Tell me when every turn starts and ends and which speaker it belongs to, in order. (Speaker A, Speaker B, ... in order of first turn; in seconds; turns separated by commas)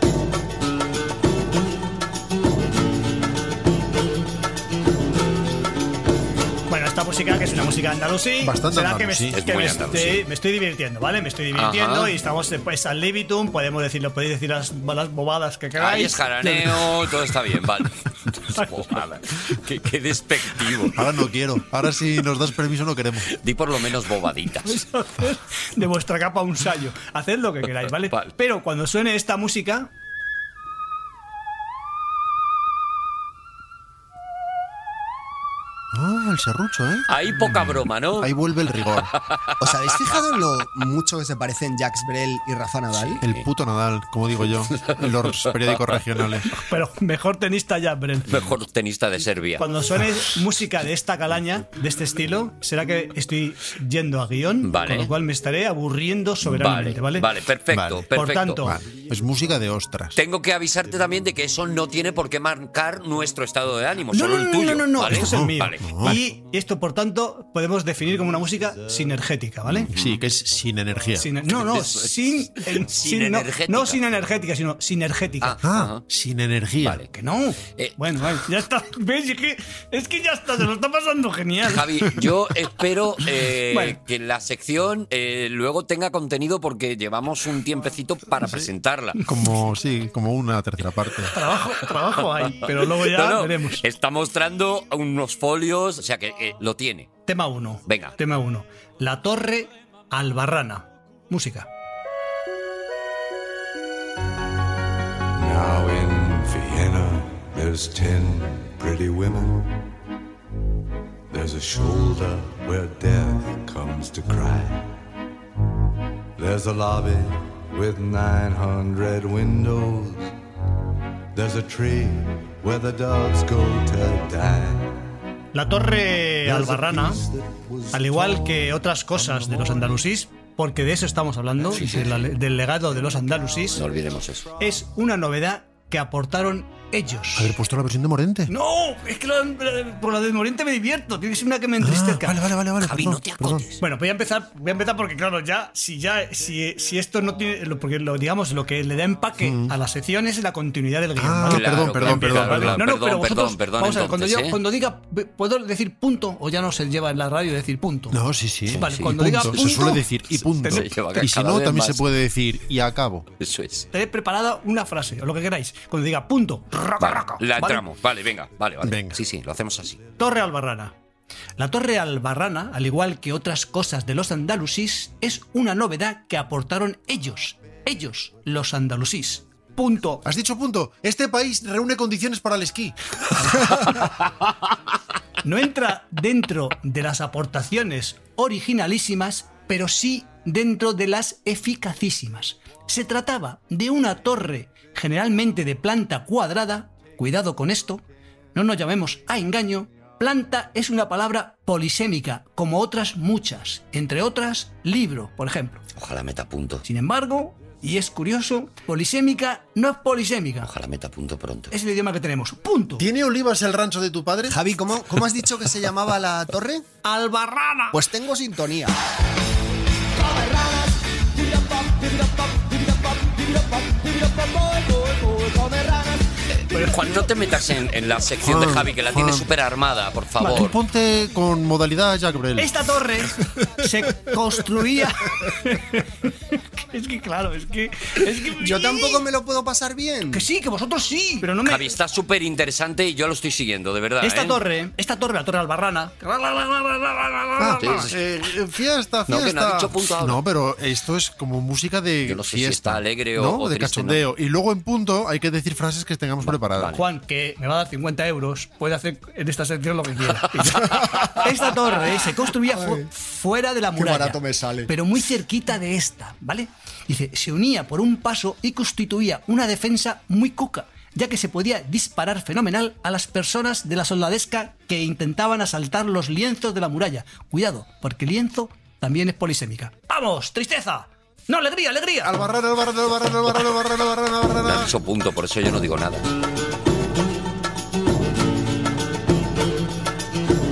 Speaker A: 6.7-17.1, Speaker B: 8.4-9.3, Speaker C: 9.3-10.2, Speaker C: 11.5-12.1, Speaker C: 15.8-21.0, Speaker A: 18.5-18.9, Speaker B: 20.9-23.3, Speaker C: 23.3-24.8, Speaker A: 24.6-29.9, Speaker C: 27.8-28.3, Speaker B: 35.9-39.1, Speaker C: 37.1-38.3, Speaker C: 39.1-39.7, Speaker D: 39.6-43.2, Speaker C: 42.9-43.5, Speaker B: 43.2-46.5, Speaker C: 44.7-46.0, Speaker A: 46.5-48.4, Speaker C: 48.3-49.6, Speaker A: 49.6-57.3, Speaker C: 54.6-55.1, Speaker C: 56.4-58.7, Speaker B: 57.7-58.1, Speaker A: 58.1-58.8, Speaker B: 58.6-60.2, Speaker C: 60.1-66.2, Speaker A: 64.1-69.9, Speaker B: 65.1-66.2, Speaker E: 68.2-69.2, Speaker C: 69.7-70.2, Speaker B: 69.9-71.3, Speaker A: 71.1-75.6, Speaker C: 71.4-74.0, Speaker C: 75.4-76.0, Speaker B: 75.6-77.0, Speaker C: 76.8-77.1, Speaker A: 77.1-82.0, Speaker C: 77.8-78.3, Speaker C: 81.6-89.2, Speaker A: 83.7-84.0, Speaker B: 88.4-88.7, Speaker B: 89.2-91.3, Speaker A: 91.3-93.8, Speaker C: 91.8-97.1, Speaker A: 97.3-101.7, Speaker C: 97.9-98.1, Speaker E: 105.3-109.9, Speaker E: 111.3-115.1, Speaker E: 116.4-120.3, Speaker E: 121.3-125.2, Speaker A: 125.5-127.2, Speaker E: 126.4-130.0, Speaker A: 127.9-133.8, Speaker C: 131.7-132.2, Speaker C: 133.8-134.4, Speaker A: 134.6-137.5, Speaker B: 137.3-138.5, Speaker A: 138.5-142.4, Speaker B: 141.8-143.7, Speaker C: 142.8-143.8, Speaker A: 143.8-160.8, Speaker B: 149.4-149.7, Speaker B: 151.2-152.8, Speaker C: 151.5-154.6, Speaker B: 158.1-163.3, Speaker C: 158.7-159.8, Speaker C: 160.6-162.0, Speaker C: 163.4-163.9, Speaker A: 163.9-167.8, Speaker C: 167.0-170.0, Speaker B: 168.8-169.2, Speaker A: 170.2-170.9, Speaker A: 171.6-180.2, Speaker B: 180.2-182.9, Speaker A: 185.4-198.0, Speaker A: 198.5-205.8, Speaker C: 205.9-206.8, Speaker A: 206.8-210.7, Speaker C: 210.6-211.7, Speaker A: 211.7-213.1, Speaker B: 213.0-214.6, Speaker D: 214.5-216.8, Speaker A: 217.0-218.0, Speaker D: 217.9-218.9, Speaker D: 221.6-222.1, Speaker D: 224.0-226.1, Speaker C: 226.6-230.8, Speaker A: 226.7-227.0, Speaker B: 228.4-229.5, Speaker B: 230.4-232.7, Speaker A: 232.6-239.2, Speaker D: 238.6-240.5, Speaker A: 240.3-241.9, Speaker C: 241.6-244.6, Speaker A: 244.2-248.1, Speaker B: 247.6-256.9, Speaker C: 247.8-248.2, Speaker C: 249.3-250.4, Speaker C: 252.2-254.2, Speaker C: 256.4-257.0, Speaker A: 256.9-282.4, Speaker C: 260.6-261.4, Speaker D: 262.6-263.1, Speaker D: 263.9-264.9, Speaker B: 282.2-284.9, Speaker C: 284.6-286.2